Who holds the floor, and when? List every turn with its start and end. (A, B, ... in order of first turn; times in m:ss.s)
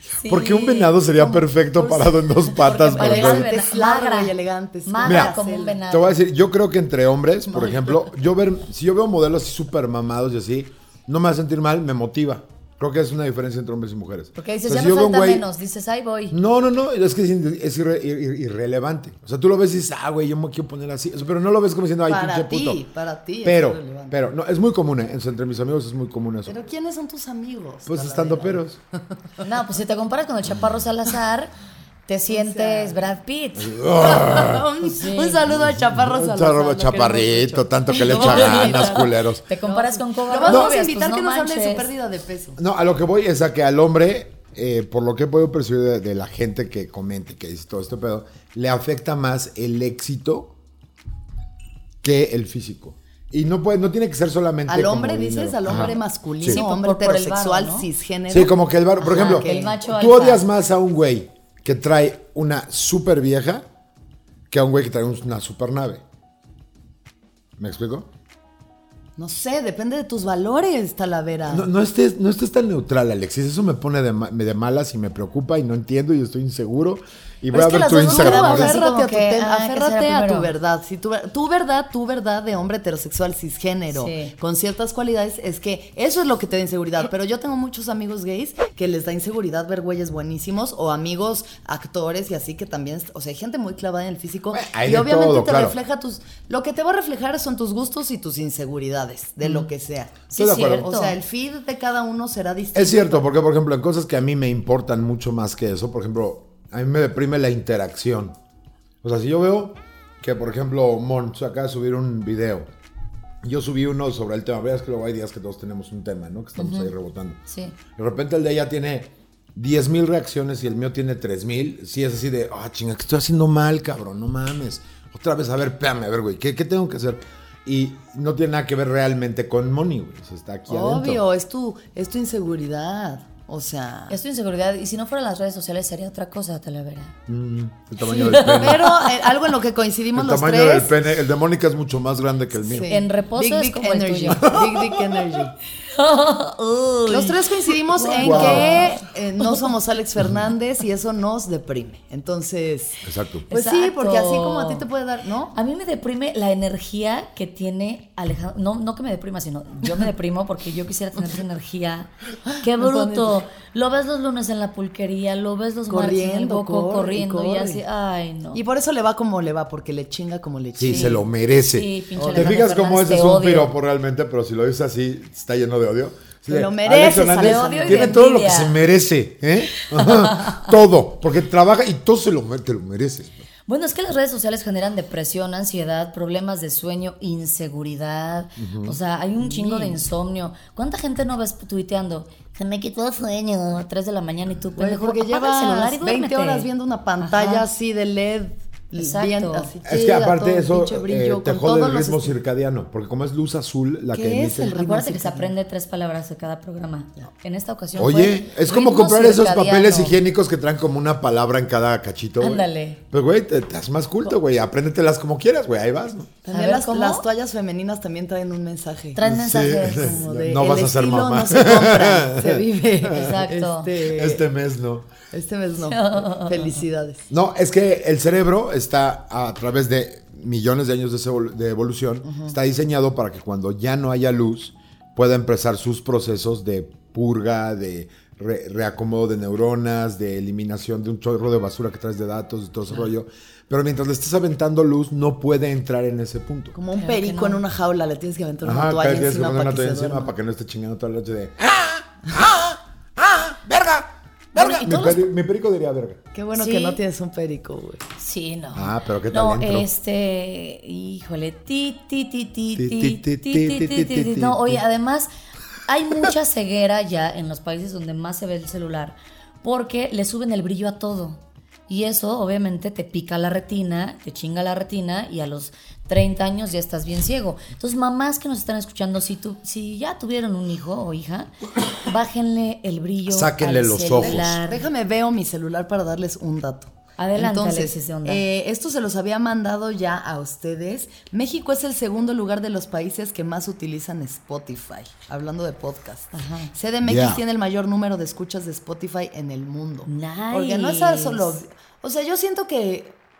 0:00.1-0:00.9 A
0:00.2-0:03.5 B
0:01.2-0:01.4 C
0:01.8-0:04.3 A
0:02.8-0:05.8 C
0:04.8-0:06.2 A
0:05.0-0:05.3 B
0:05.9-0:15.4 B
0:07.5-0:08.0 C
0:14.4-0:16.4 A
0:16.3-0:22.8 B
0:22.0-0:24.2 C
0:23.4-0:26.5 B
0:26.4-0:29.4 C
0:27.9-0:28.8 B
0:29.4-0:31.5 A
0:32.1-0:33.9 A
0:32.3-0:33.0 C
0:33.6-0:34.7 B
0:33.9-0:42.6 C
0:34.8-0:35.4 A
0:35.5-0:39.4 B
0:37.9-0:41.9 A
0:42.6-0:50.5 B
0:52.0-0:56.6 B
0:54.7-0:59.8 C
0:55.7-0:57.9 A
0:58.3-1:03.6 B
0:59.0-1:00.4 A
1:04.5-1:06.0 B
1:07.6-1:08.1 B
1:09.2-1:11.7 C
1:11.5-1:18.8 B
1:17.5-1:43.3 C
1:18.1-1:20.5 A
1:23.9-1:24.3 A
1:34.5-1:35.8 B
1:40.3-1:41.2 A
1:40.3-1:40.9 B
1:42.7-1:48.4 B
1:49.0-1:52.7 B
1:53.4-1:57.4 B
1:56.6-1:56.9 A
1:57.5-1:57.8 A
1:58.0-2:11.2 B
2:10.7-2:14.2 C
2:14.1-2:17.1 A
2:17.3-2:18.9 B
2:18.0-2:19.2 A
2:18.3-2:21.0 C
2:20.1-2:22.9 B
2:22.6-2:25.6 C
2:22.7-2:24.5 A
2:24.3-2:25.2 B
2:25.9-2:29.7 A
2:27.1-2:35.5 C
2:28.2-2:28.8 B
2:33.0-2:33.4 B
2:33.5-2:34.8 A
2:35.5-2:48.6 A
2:42.4-2:43.4 C
2:45.9-2:47.8 C
2:48.5-2:51.3 C
2:50.8-3:03.4 B
2:50.8-2:51.2 A
2:51.7-2:53.7 A
2:52.2-2:52.6 C
2:56.5-2:58.2 C
2:57.3-2:58.8 A
2:59.8-3:00.7 A
3:03.7-3:16.7 A
3:08.6-3:09.0 B
3:09.4-3:10.0 C
3:14.8-3:22.4 C
3:17.2-3:17.6 A
3:19.0-3:19.7 A
3:19.8-3:24.8 B
3:24.1-3:25.5 C
3:24.7-3:30.2 A
3:28.0-3:36.3 B
3:32.4-3:33.0 A
3:36.4-3:39.2 C
3:36.5-3:37.2 A
3:39.1-3:40.2 A
3:39.2-3:42.6 B
3:39.8-3:44.4 C
3:43.1-3:43.9 A
3:44.0-3:45.1 B
3:45.3-3:47.2 C
3:45.8-3:46.8 A
3:47.3-4:06.7 B
3:52.2-3:52.5 C
4:06.7-4:10.3 C
4:07.0-4:07.6 A
4:08.6-4:16.2 B
4:14.5-4:15.2 A
4:16.3-4:18.0 C
4:16.5-4:17.0 A
4:18.2-4:25.3 A
4:18.7-4:19.9 B
4:22.8-4:24.8 B
4:25.9-4:44.8 A
4:43.3-4:44.5 B
4:44.1-5:03.2 C
4:47.2-4:48.4 A
4:56.3-4:56.7 A
4:57.0-4:57.4 B
5:00.0-5:01.6 A